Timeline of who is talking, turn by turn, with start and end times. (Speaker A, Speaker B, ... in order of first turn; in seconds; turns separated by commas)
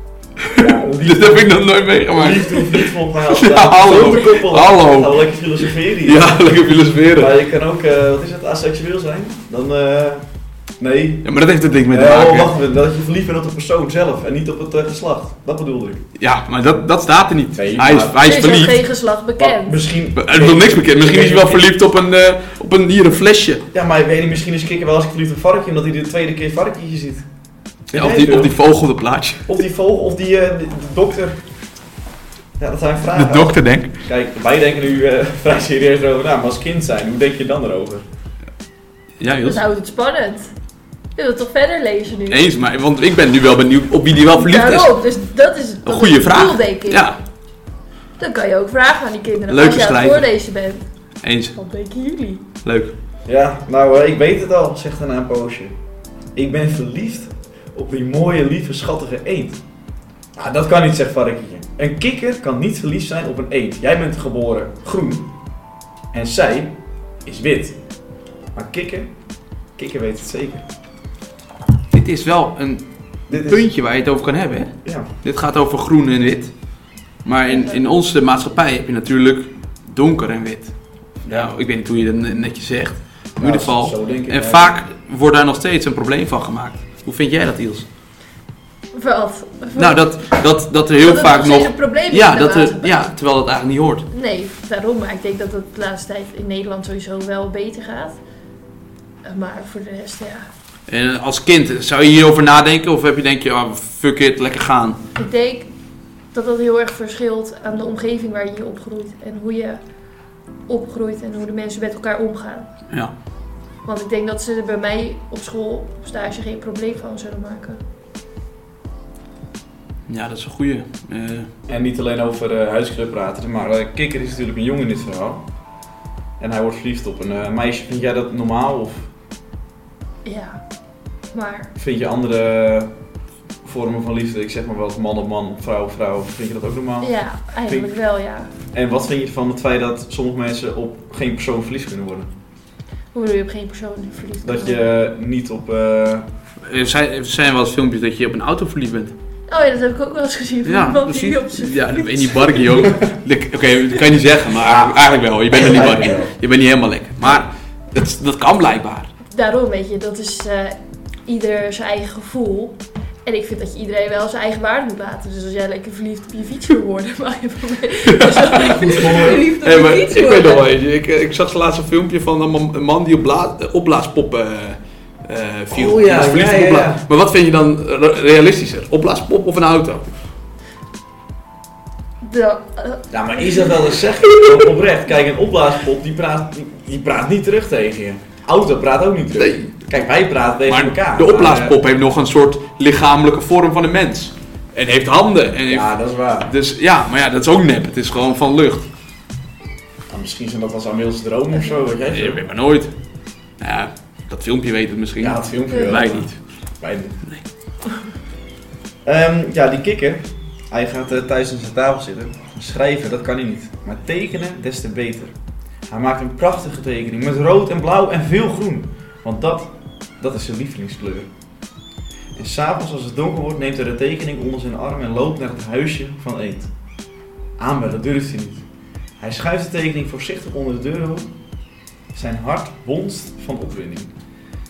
Speaker A: 0.4-5.2, Speaker B: 0.6-6.5, Speaker A: 6.0-7.3, Speaker B: 7.1-10.2, Speaker B: 10.8-11.3, Speaker A: 11.2-12.5, Speaker B: 11.9-16.0, Speaker A: 16.2-18.8, Speaker B: 17.6-18.2, Speaker C: 18.2-19.8, Speaker B: 19.4-21.7, Speaker A: 20.1-23.6, Speaker B: 23.7-27.3, Speaker B: 27.9-28.5, Speaker A: 27.9-29.5, Speaker B: 29.5-31.4, Speaker B: 32.6-38.0, Speaker A: 33.1-33.9, Speaker A: 39.2-39.6, Speaker C: 39.4-40.5, Speaker C: 41.1-42.4, Speaker A: 42.3-44.9, Speaker C: 44.4-47.1, Speaker A: 45.9-47.2, Speaker C: 48.2-50.8, Speaker A: 49.5-50.2, Speaker A: 51.2-51.5, Speaker C: 51.5-52.4, Speaker A: 52.6-52.9, Speaker B: 53.2-55.8, Speaker B: 56.3-59.6, Speaker B: 60.4-65.3, Speaker B: 66.1-67.8, Speaker B: 68.5-69.1, Speaker B: 69.8-70.7, Speaker A: 71.9-76.5, Speaker B: 73.3-73.7, Speaker B: 74.8-75.1, Speaker A: 77.2-87.8, Speaker C: 77.5-77.9, Speaker B: 81.3-81.5, Speaker B: 83.4-84.8, Speaker C: 88.9-90.1, Speaker A: 89.8-94.1, Speaker C: 91.0-93.1, Speaker C: 94.1-98.2, Speaker C: 99.2-100.5, Speaker A: 100.9-105.0, Speaker C: 105.2-105.7, Speaker C: 106.3-109.8, Speaker C: 110.7-112.7, Speaker C: 113.8-117.8, Speaker A: 120.1-121.5, Speaker B: 121.7-125.4, Speaker B: 126.4-129.1, Speaker C: 130.2-130.6, Speaker C: 131.3-131.7, Speaker B: 131.8-132.9, Speaker B: 133.6-137.1, Speaker C: 137.0-138.5, Speaker B: 138.7-142.3, Speaker C: 143.1-144.9, Speaker B: 144.4-146.3, Speaker A: 146.7-149.1, Speaker C: 149.5-152.9, Speaker A: 150.6-159.1, Speaker B: 154.6-156.3, Speaker C: 159.3-170.7, Speaker A: 168.1-180.1, Speaker B: 168.6-169.5, Speaker B: 175.7-177.0, Speaker C: 182.2-183.9, Speaker B: 183.1-191.8, Speaker A: 189.4-189.7, Speaker A: 190.7-195.9, Speaker B: 195.7-196.5, Speaker A: 196.4-198.8, Speaker B: 200.1-202.4, Speaker A: 202.1-202.9, Speaker A: 203.6-206.3, Speaker B: 205.2-207.2, Speaker C: 205.7-206.0, Speaker B: 209.0-215.3, Speaker B: 215.9-221.3, Speaker B: 222.3-226.7, Speaker B: 227.6-228.7, Speaker B: 229.2-231.3, Speaker B: 232.1-234.1